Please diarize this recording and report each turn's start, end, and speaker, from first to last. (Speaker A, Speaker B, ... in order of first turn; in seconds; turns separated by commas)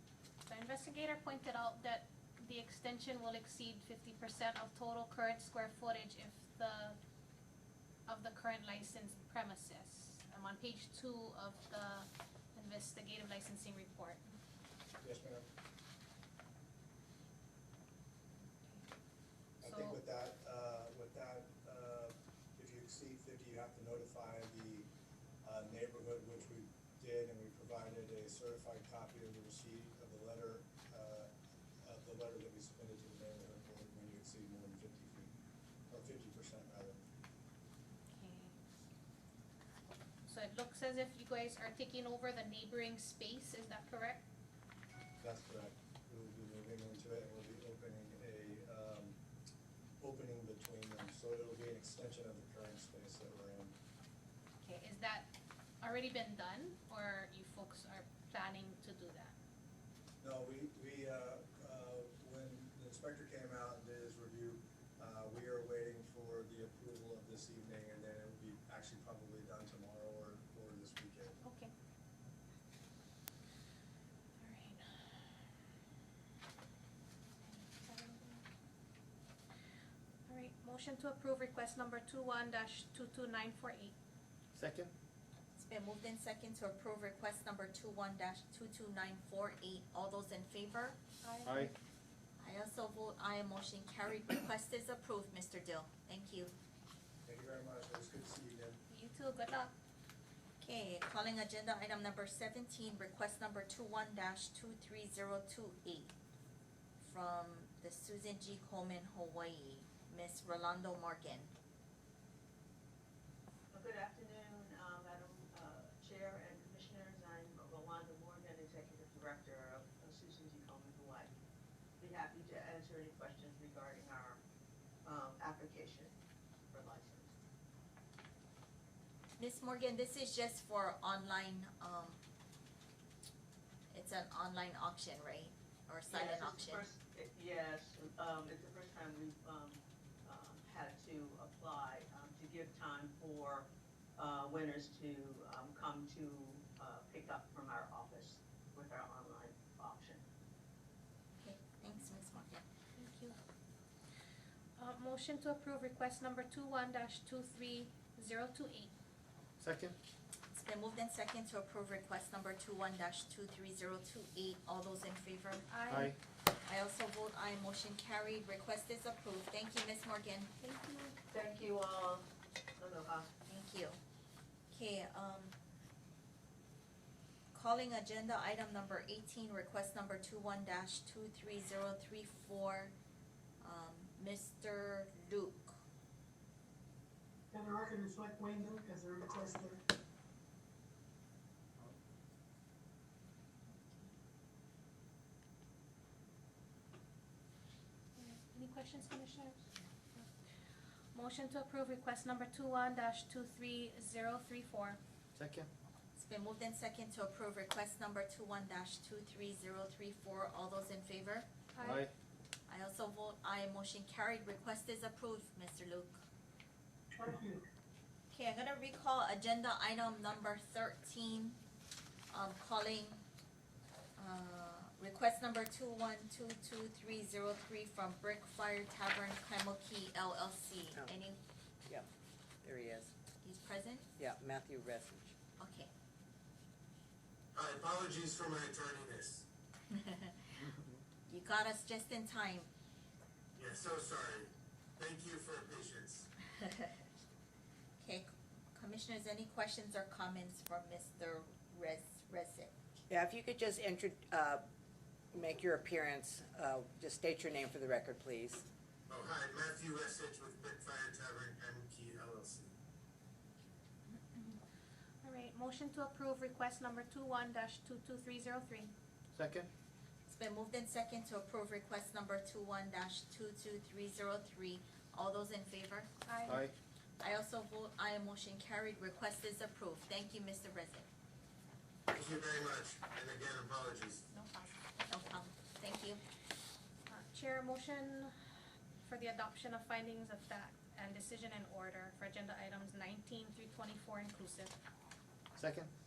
Speaker A: 0.5-7.0, Speaker A: 8.1-14.3, Speaker B: 15.0-15.4, Speaker A: 18.5-18.9, Speaker B: 19.6-24.9, Speaker A: 19.6-20.0, Speaker B: 25.4-31.3, Speaker B: 31.8-35.3, Speaker B: 35.9-37.0, Speaker A: 38.1-38.5, Speaker A: 40.2-44.2, Speaker B: 45.2-49.1, Speaker B: 50.0-53.7, Speaker A: 54.6-59.3, Speaker B: 60.2-71.4, Speaker A: 71.4-71.7, Speaker A: 74.4-75.0, Speaker A: 77.4-78.4, Speaker A: 80.3-83.9, Speaker C: 84.5-84.9, Speaker D: 85.5-91.0, Speaker A: 91.2-91.7, Speaker C: 91.4-91.7, Speaker D: 92.4-96.5, Speaker B: 97.2-98.8, Speaker A: 98.9-99.7, Speaker D: 100.6-106.1, Speaker D: 107.0-111.5, Speaker E: 113.7-121.3, Speaker E: 122.0-124.4, Speaker E: 125.0-126.1, Speaker E: 126.7-127.3, Speaker D: 129.4-132.2, Speaker D: 133.9-136.8, Speaker E: 136.1-150.2, Speaker D: 151.4-152.6, Speaker A: 153.0-153.4, Speaker A: 154.8-158.9, Speaker C: 159.6-159.9, Speaker D: 160.5-165.7, Speaker A: 165.7-166.1, Speaker C: 165.9-166.2, Speaker D: 166.7-170.5, Speaker A: 170.6-171.2, Speaker E: 171.3-172.2, Speaker E: 172.8-173.3, Speaker D: 173.5-174.0, Speaker D: 174.7-175.6, Speaker D: 177.5-182.9, Speaker D: 183.6-185.8, Speaker F: 187.5-189.8, Speaker A: 198.2-199.6, Speaker A: 201.1-205.0, Speaker C: 205.3-205.7, Speaker D: 206.2-211.4, Speaker A: 211.7-212.1, Speaker C: 211.8-212.1, Speaker D: 212.7-216.2, Speaker F: 217.2-217.6, Speaker D: 218.3-221.6, Speaker D: 222.3-223.2, Speaker D: 224.2-231.4, Speaker G: 232.6-233.1, Speaker D: 233.4-234.1, Speaker G: 234.2-235.3, Speaker D: 235.6-235.9, Speaker H: 237.5-239.4, Speaker D: 239.9-240.5, Speaker D: 241.3-242.7, Speaker H: 243.6-246.3, Speaker D: 248.0-252.7, Speaker G: 253.1-254.6, Speaker G: 255.3-258.7, Speaker H: 259.1-262.7, Speaker A: 264.1-264.6, Speaker A: 265.2-268.9, Speaker C: 269.3-269.7, Speaker D: 270.3-276.1, Speaker A: 276.2-276.6, Speaker C: 276.5-276.7, Speaker D: 277.2-281.1, Speaker H: 282.1-284.2, Speaker A: 284.3-284.8, Speaker D: 285.1-286.2, Speaker A: 287.1-288.3, Speaker A: 289.0-294.7, Speaker C: 295.5-295.9